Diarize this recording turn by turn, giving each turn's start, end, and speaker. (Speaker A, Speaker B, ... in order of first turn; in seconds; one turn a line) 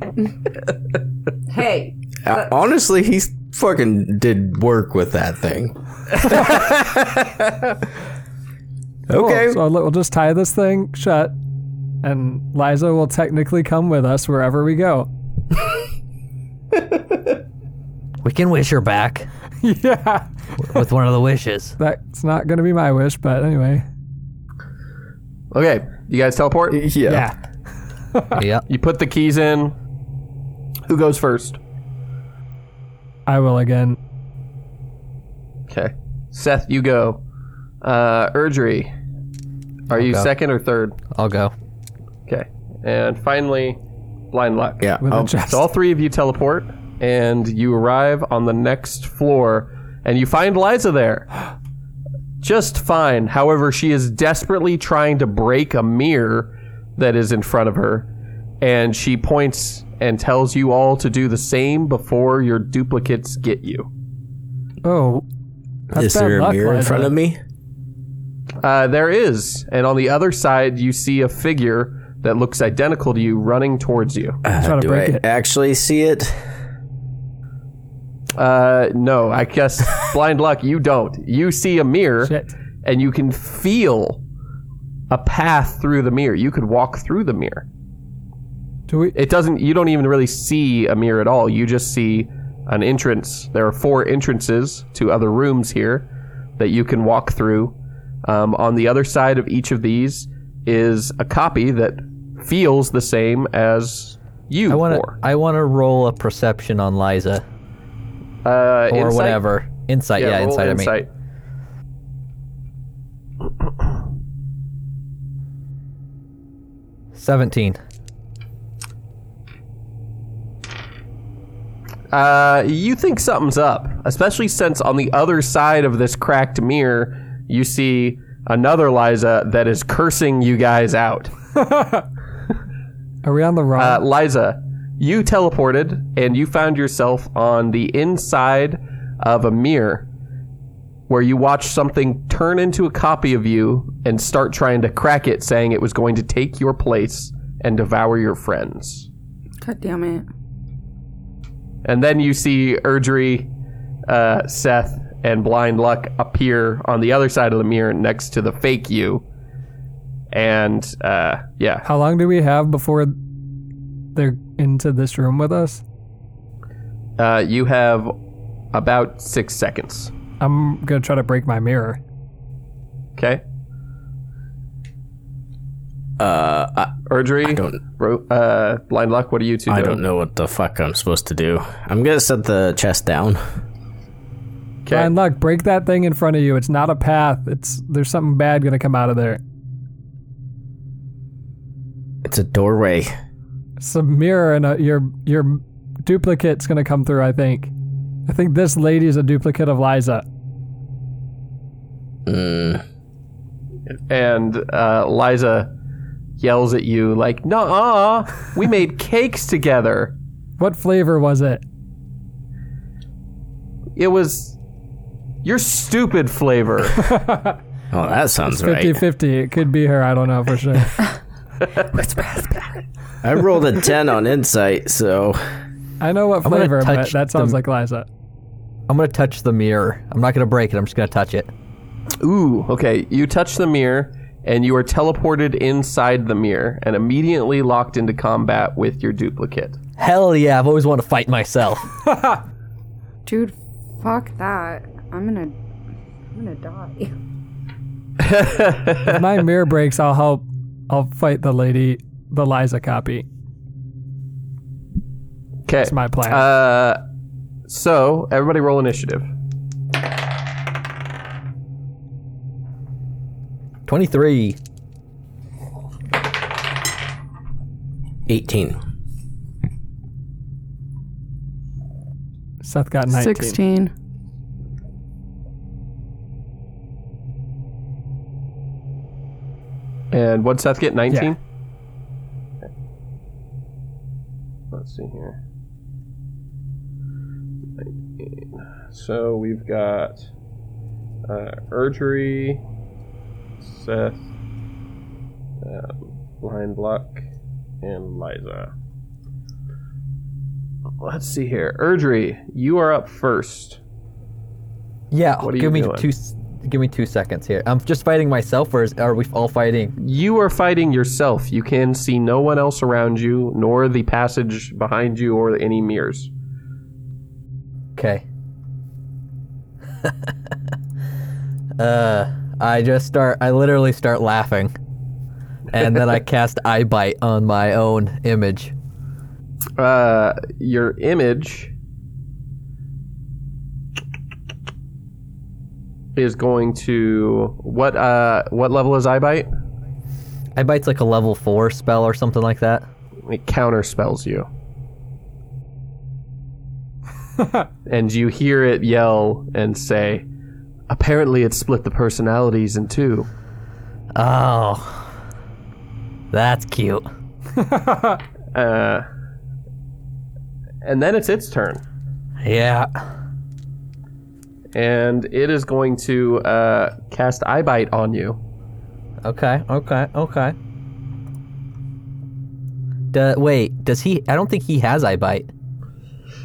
Speaker A: 1.5-2.5
Speaker B: 2.2-5.8
Speaker B: 9.1-9.6
Speaker C: 9.1-11.4
Speaker C: 12.0-15.1
Speaker D: 18.2-19.3
Speaker C: 19.6-20.3
Speaker D: 20.6-21.8
Speaker C: 21.8-23.9
Speaker E: 25.5-26.8
Speaker B: 26.7-27.3
Speaker C: 27.1-27.4
Speaker C: 28.1-28.4
Speaker D: 28.4-28.6
Speaker E: 28.7-29.8
Speaker E: 30.9-31.6
Speaker C: 33.3-34.0
Speaker E: 35.7-37.2
Speaker E: 37.8-38.9
Speaker E: 39.9-41.0
Speaker D: 39.9-40.3
Speaker D: 41.1-41.5
Speaker E: 42.3-43.8
Speaker E: 44.3-44.9
Speaker B: 44.8-45.4
Speaker C: 45.0-45.7
Speaker E: 45.5-51.3
Speaker E: 52.4-58.1
Speaker E: 58.6-63.9
Speaker C: 64.8-65.2
Speaker B: 65.9-67.4
Speaker C: 65.9-67.1
Speaker E: 68.6-74.4
Speaker B: 74.5-76.3
Speaker C: 74.6-75.2
Speaker E: 78.4-84.2
Speaker C: 82.2-82.5
Speaker E: 85.1-87.7
Speaker C: 88.9-89.2
Speaker E: 89.2-105.2
Speaker D: 104.7-107.4
Speaker E: 108.5-109.4
Speaker D: 108.9-111.0
Speaker E: 110.2-111.1
Speaker D: 117.2-117.8
Speaker E: 122.1-131.3
Speaker C: 131.6-132.1
Speaker C: 133.2-134.0
Speaker E: 133.8-140.1
Speaker E: 141.1-149.1
Speaker A: 149.6-150.3
Speaker E: 151.8-153.5
Speaker E: 154.1-159.2
Speaker E: 160.3-161.8
Speaker C: 161.8-163.2
Speaker C: 164.2-165.8
Speaker E: 167.2-168.1
Speaker E: 168.7-170.1
Speaker C: 170.4-172.0
Speaker E: 173.2-173.4
Speaker B: 176.2-177.8
Speaker E: 177.1-180.0
Speaker B: 179.7-183.4
Speaker E: 184.8-185.1
Speaker C: 184.9-189.4
Speaker B: 192.2-193.1
Speaker C: 193.8-197.7
Speaker C: 198.3-200.2
Speaker B: 202.3-202.8
Speaker E: 203.9-205.7
Speaker E: 206.4-210.2
Speaker C: 210.6-211.6
Speaker E: 214.0-214.6
Speaker E: 215.4-217.1
Speaker C: 217.0-217.6
Speaker B: 217.9-219.0
Speaker C: 218.5-221.0
Speaker A: 222.0-222.6
Speaker B: 223.2-225.4
Speaker C: 226.0-228.1
Speaker D: 226.4-227.6
Speaker D: 228.9-231.5
Speaker E: 232.2-239.8
Speaker D: 240.0-241.9
Speaker A: 243.3-245.6
Speaker A: 246.3-247.1
Speaker E: 248.2-249.2
Speaker C: 249.0-253.3
Speaker E: 255.7-257.0
Speaker C: 255.8-256.5
Speaker E: 257.7-259.3
Speaker D: 263.9-264.6
Speaker B: 268.3-268.8
Speaker C: 272.6-273.6
Speaker A: 273.1-273.9
Speaker E: 280.1-281.4
Speaker E: 284.7-285.4
Speaker E: 287.8-290.2
Speaker E: 291.3-292.6
Speaker E: 293.6-294.2
Speaker E: 295.6-297.2
Speaker E: 297.8-298.7
Speaker E: 301.0-303.8
Speaker D: 305.1-310.0
Speaker E: 305.4-306.1
Speaker E: 310.0-316.3
Speaker D: 317.9-318.2
Speaker D: 320.0-320.3
Speaker D: 321.8-324.7
Speaker D: 325.7-328.7
Speaker E: 329.8-331.7
Speaker E: 336.1-339.5
Speaker D: 340.6-342.9
Speaker E: 343.3-344.5
Speaker E: 347.9-350.3
Speaker E: 350.9-353.3
Speaker D: 354.2-355.1
Speaker D: 356.3-357.1
Speaker C: 357.6-358.2
Speaker E: 358.5-359.1
Speaker E: 360.8-361.8
Speaker D: 362.4-362.9
Speaker E: 364.7-368.4
Speaker D: 369.2-370.6
Speaker D: 373.1-375.5